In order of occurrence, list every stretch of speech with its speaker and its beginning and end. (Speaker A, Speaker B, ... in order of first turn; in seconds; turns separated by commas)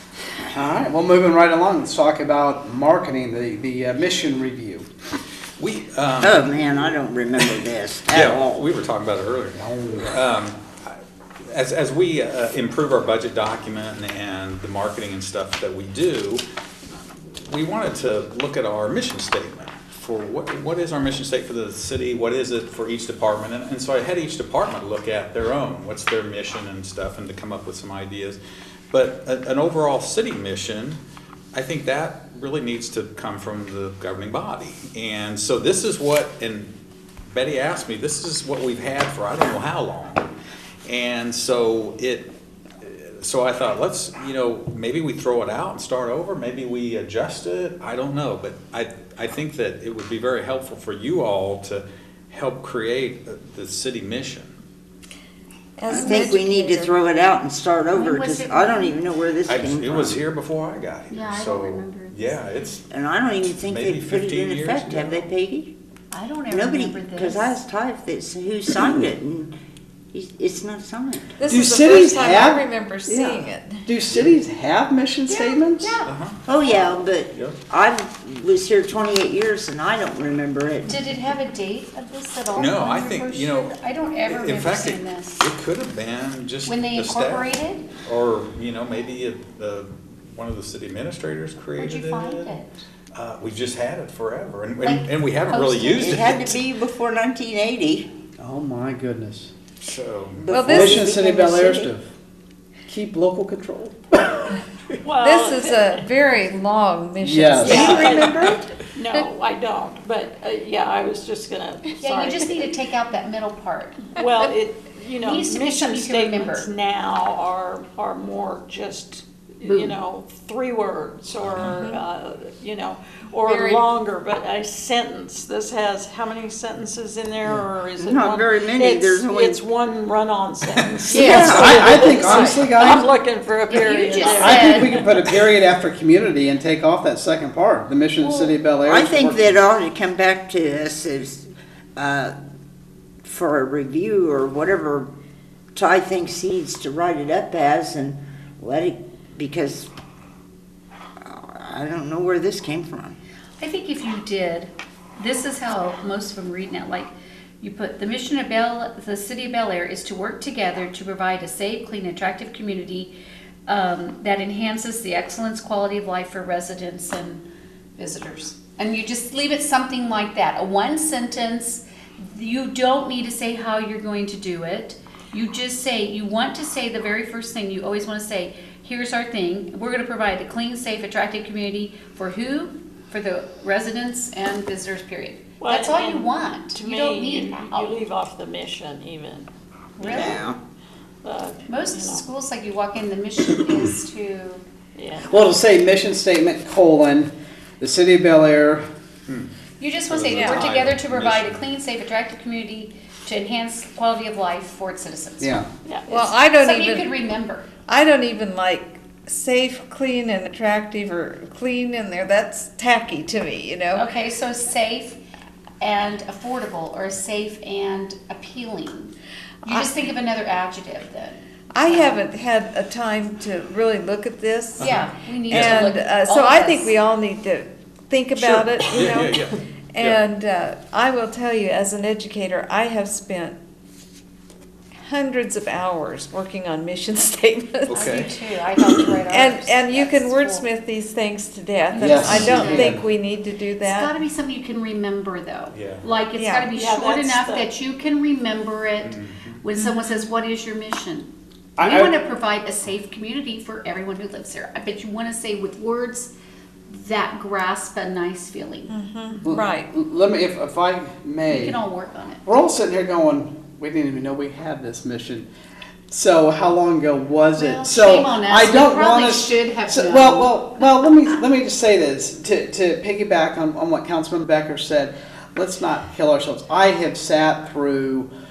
Speaker A: 0.5-4.9, Speaker B: 5.6-6.9, Speaker C: 6.2-8.7, Speaker B: 8.1-11.0, Speaker A: 9.6-10.2, Speaker B: 11.5-16.4, Speaker B: 17.4-28.4, Speaker B: 28.9-31.0, Speaker B: 31.5-36.7, Speaker B: 37.3-40.3, Speaker B: 40.9-54.5, Speaker D: 55.8-56.9, Speaker C: 55.9-60.2, Speaker E: 55.9-56.3, Speaker E: 57.9-59.0, Speaker B: 59.5-62.9, Speaker E: 61.1-62.4, Speaker C: 62.9-65.7, Speaker B: 63.5-65.3, Speaker E: 66.1-67.6, Speaker C: 66.5-69.6, Speaker C: 70.1-71.4, Speaker D: 71.4-73.9, Speaker A: 71.5-76.0, Speaker E: 75.3-76.1, Speaker B: 76.0-77.6, Speaker C: 76.5-80.9, Speaker E: 80.9-85.5, Speaker B: 82.5-83.8, Speaker B: 84.3-92.5, Speaker E: 86.6-87.9, Speaker E: 91.8-92.7, Speaker B: 93.2-96.6, Speaker E: 94.8-96.2, Speaker C: 96.0-98.1, Speaker A: 98.4-99.5, Speaker B: 99.8-100.5, Speaker C: 100.4-101.9, Speaker D: 100.5-101.1, Speaker A: 100.6-102.1, Speaker A: 102.9-104.6, Speaker F: 105.0-106.0, Speaker D: 105.2-108.7, Speaker A: 107.2-108.0, Speaker F: 107.7-112.8, Speaker E: 112.0-114.1, Speaker F: 114.1-135.4, Speaker E: 115.2-116.7, Speaker E: 119.6-120.0, Speaker B: 121.4-121.9, Speaker D: 123.4-123.8, Speaker C: 128.0-129.6, Speaker E: 131.1-132.9, Speaker C: 131.1-132.1, Speaker A: 131.5-133.1, Speaker E: 133.7-135.0, Speaker A: 134.2-139.6, Speaker E: 138.2-138.6, Speaker C: 138.8-142.3, Speaker C: 143.2-145.1, Speaker C: 145.8-149.9, Speaker C: 151.2-153.2, Speaker E: 153.6-163.1, Speaker E: 163.7-167.4, Speaker E: 168.0-188.0, Speaker F: 185.6-190.5, Speaker E: 190.0-190.5, Speaker C: 190.0-190.6, Speaker F: 191.2-192.3, Speaker E: 191.7-194.6, Speaker F: 194.9-195.3, Speaker A: 195.3-198.8, Speaker E: 199.8-205.6, Speaker B: 200.1-201.7, Speaker D: 200.3-200.7, Speaker A: 205.4-205.7, Speaker F: 205.8-206.3, Speaker D: 206.1-207.1, Speaker E: 206.1-207.7, Speaker D: 207.9-214.1, Speaker E: 213.9-215.2, Speaker E: 215.8-219.1, Speaker D: 219.7-219.9, Speaker E: 219.7-222.2, Speaker D: 221.7-229.4, Speaker B: 224.8-225.9, Speaker E: 224.8-227.0, Speaker B: 228.4-230.2, Speaker D: 229.9-233.6, Speaker D: 235.1-238.3, Speaker B: 237.9-238.3, Speaker E: 237.9-240.7, Speaker D: 238.9-244.1, Speaker E: 242.0-243.0, Speaker A: 242.0-243.1, Speaker E: 243.8-256.3, Speaker B: 245.7-246.1, Speaker D: 246.4-246.7, Speaker F: 246.7-247.7, Speaker B: 249.0-249.6, Speaker D: 249.8-250.2, Speaker A: 251.8-252.2, Speaker E: 256.9-258.9, Speaker D: 258.9-259.9, Speaker A: 259.4-261.8, Speaker E: 261.5-262.4, Speaker A: 262.5-265.5, Speaker A: 266.1-278.3, Speaker E: 267.5-271.4